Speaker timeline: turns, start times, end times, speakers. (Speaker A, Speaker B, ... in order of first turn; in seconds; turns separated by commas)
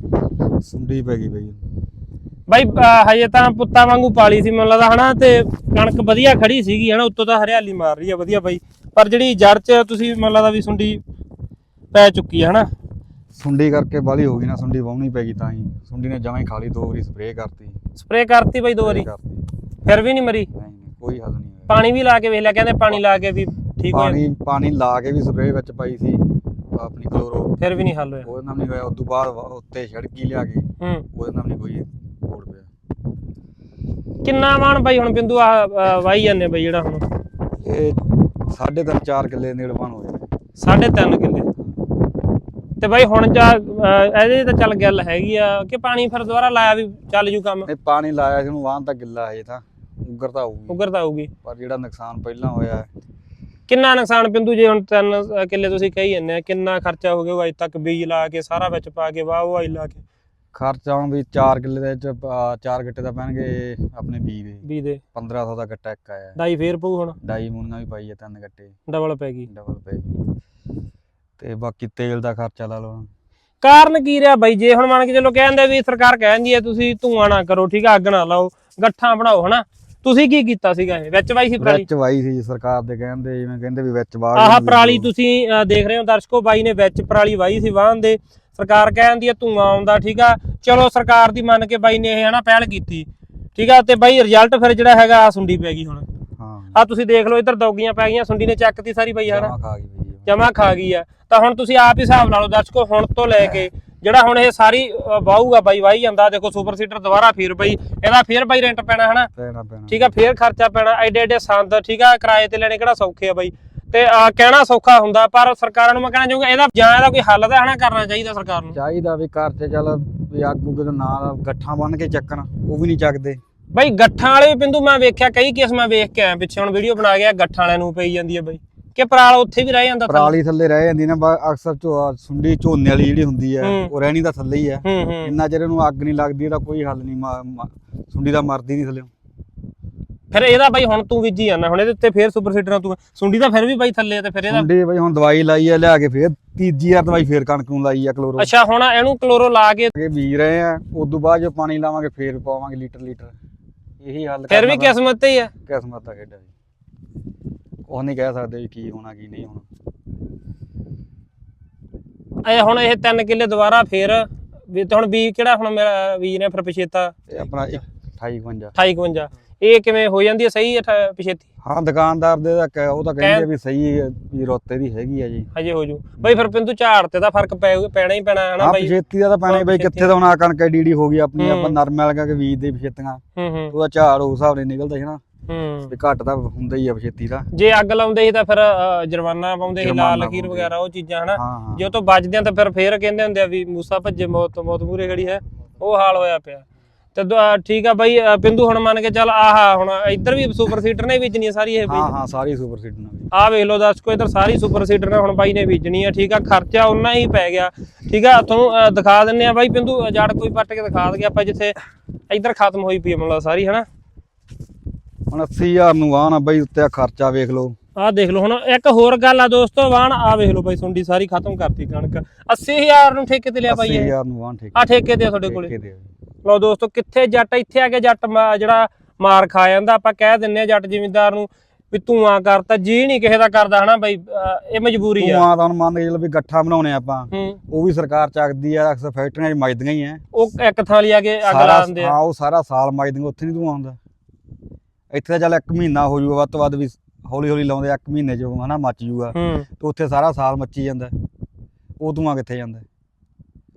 Speaker A: 0.6-1.6, Speaker B: 2.5-11.0, Speaker B: 11.9-12.7, Speaker A: 13.3-17.8, Speaker B: 18.0-19.1, Speaker A: 18.8-19.4, Speaker B: 19.8-20.5, Speaker A: 20.5-21.8, Speaker B: 21.7-24.2, Speaker A: 23.9-27.6, Speaker B: 27.6-28.3, Speaker A: 28.2-32.7, Speaker B: 34.2-37.0, Speaker A: 37.6-40.3, Speaker B: 40.6-41.5, Speaker B: 42.8-47.7, Speaker A: 47.6-50.8, Speaker B: 50.7-51.3, Speaker A: 51.4-52.9, Speaker B: 53.7-60.0, Speaker A: 60.5-66.4, Speaker B: 64.6-65.0, Speaker B: 66.4-67.2, Speaker A: 67.2-68.7, Speaker B: 68.9-69.5, Speaker A: 69.5-70.3, Speaker A: 71.4-73.1, Speaker B: 73.6-81.9, Speaker A: 81.6-85.1, Speaker B: 84.4-96.0, Speaker A: 96.4-96.8, Speaker B: 96.8-99.5, Speaker A: 99.3-100.3, Speaker B: 100.3-109.3, Speaker A: 109.3-110.1, Speaker B: 109.9-118.8, Speaker A: 118.7-123.4, Speaker B: 123.7-130.3, Speaker A: 130.1-139.1, Speaker B: 133.6-133.9, Speaker B: 134.8-135.3, Speaker B: 140.3-144.7, Speaker A: 144.5-148.5, Speaker B: 148.4-149.9, Speaker A: 149.9-153.3, Speaker A: 154.0-155.0, Speaker B: 154.5-155.5, Speaker A: 155.7-156.5, Speaker A: 157.9-159.7, Speaker B: 162.4-167.2, Speaker A: 167.3-168.8, Speaker B: 168.8-171.4, Speaker A: 171.6-175.5, Speaker B: 173.2-173.5, Speaker B: 175.5-178.9, Speaker A: 176.2-176.5, Speaker A: 178.6-185.2, Speaker B: 179.5-180.1, Speaker B: 181.4-181.8, Speaker B: 183.4-183.7, Speaker B: 185.5-185.9, Speaker A: 185.9-187.5, Speaker B: 187.5-202.1, Speaker A: 189.8-190.7, Speaker A: 191.3-191.9, Speaker A: 201.9-203.3, Speaker B: 203.3-211.8, Speaker B: 212.3-213.9, Speaker A: 215.3-217.8, Speaker B: 218.0-224.1, Speaker A: 223.7-226.1, Speaker B: 224.8-225.7, Speaker B: 226.4-235.5, Speaker A: 235.2-240.2, Speaker B: 237.3-237.6, Speaker B: 240.3-242.2, Speaker A: 241.4-244.0, Speaker A: 245.1-251.2, Speaker B: 249.3-249.7, Speaker A: 252.0-252.8